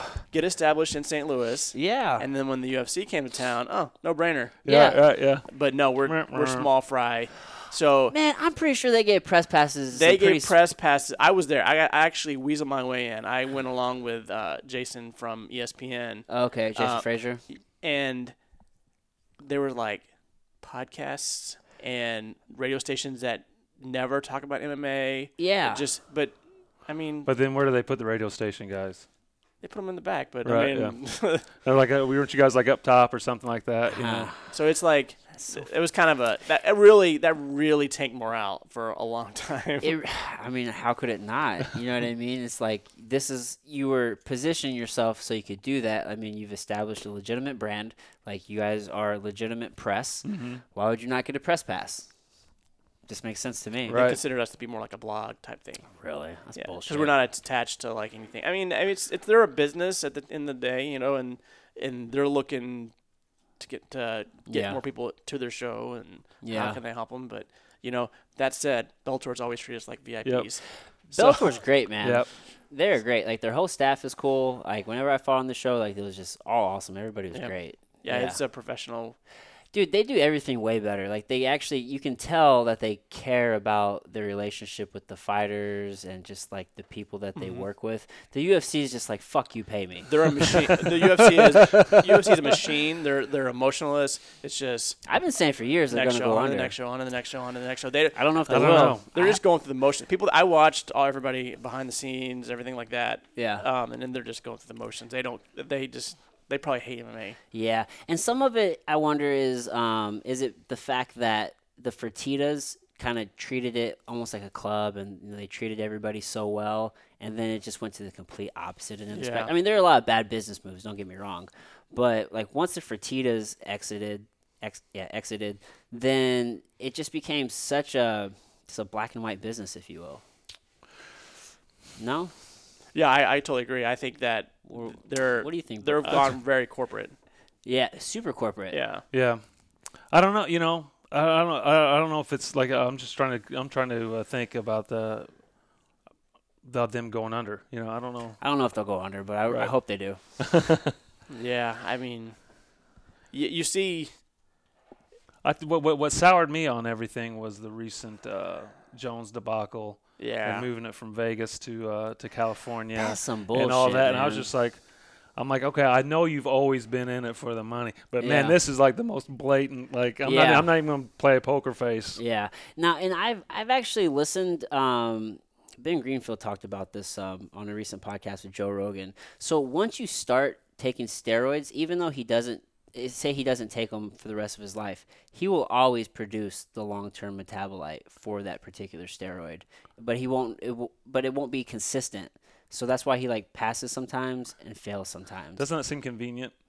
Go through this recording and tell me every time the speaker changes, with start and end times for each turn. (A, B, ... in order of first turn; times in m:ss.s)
0:00.3-0:04.6 A
0:01.7-0:02.3 B
0:04.6-0:05.5 C
0:04.6-0:05.0 B
0:05.5-0:08.2 A
0:06.0-0:06.7 C
0:08.1-0:10.6 B
0:09.9-0:18.4 A
0:16.3-0:17.4 B
0:19.4-0:20.1 A
0:20.6-0:27.3 A
0:25.4-0:25.8 B
0:27.3-0:29.1 C
0:29.6-0:31.5 A
0:30.4-0:31.0 C
0:31.6-0:34.3 C
0:33.9-0:34.5 B
0:34.5-0:40.0 A
0:35.4-0:35.6 B
0:39.8-0:52.1 B
0:50.2-0:50.6 C
0:53.1-0:54.0 B
0:53.9-0:54.2 C
0:53.9-0:55.9 A
0:55.9-0:57.2 B
0:56.6-1:02.9 A
1:03.6-1:11.6 A
1:04.5-1:04.8 B
1:06.4-1:06.8 B
1:11.2-1:18.4 B
1:12.0-1:12.3 C
1:17.3-1:19.2 A
1:19.7-1:30.6 B
1:27.4-1:27.6 A
1:30.1-1:35.0 A
1:31.0-1:32.5 C
1:35.0-1:36.7 B
1:35.9-1:47.4 A
1:38.1-1:39.4 B
1:38.5-1:39.0 C
1:43.4-1:43.6 B
1:47.5-2:10.2 B
1:59.1-1:59.5 A
2:12.0-2:12.3 B
2:12.9-2:17.2 A
2:14.7-2:16.4 B
2:17.6-2:18.8 B
2:18.7-2:19.0 A
2:19.1-2:19.4 C
2:20.1-2:25.3 C
2:26.6-2:28.4 C
2:28.4-2:30.2 B
2:29.5-2:29.7 C
2:30.4-2:31.0 C
2:31.3-2:32.4 A
2:33.3-2:34.1 A
2:35.4-2:44.8 C
2:40.2-2:40.7 A
2:42.9-2:44.5 B
2:45.4-2:52.2 C
2:48.2-2:48.6 B
2:50.2-2:50.7 B
2:52.2-3:15.6 B
3:15.6-3:16.5 C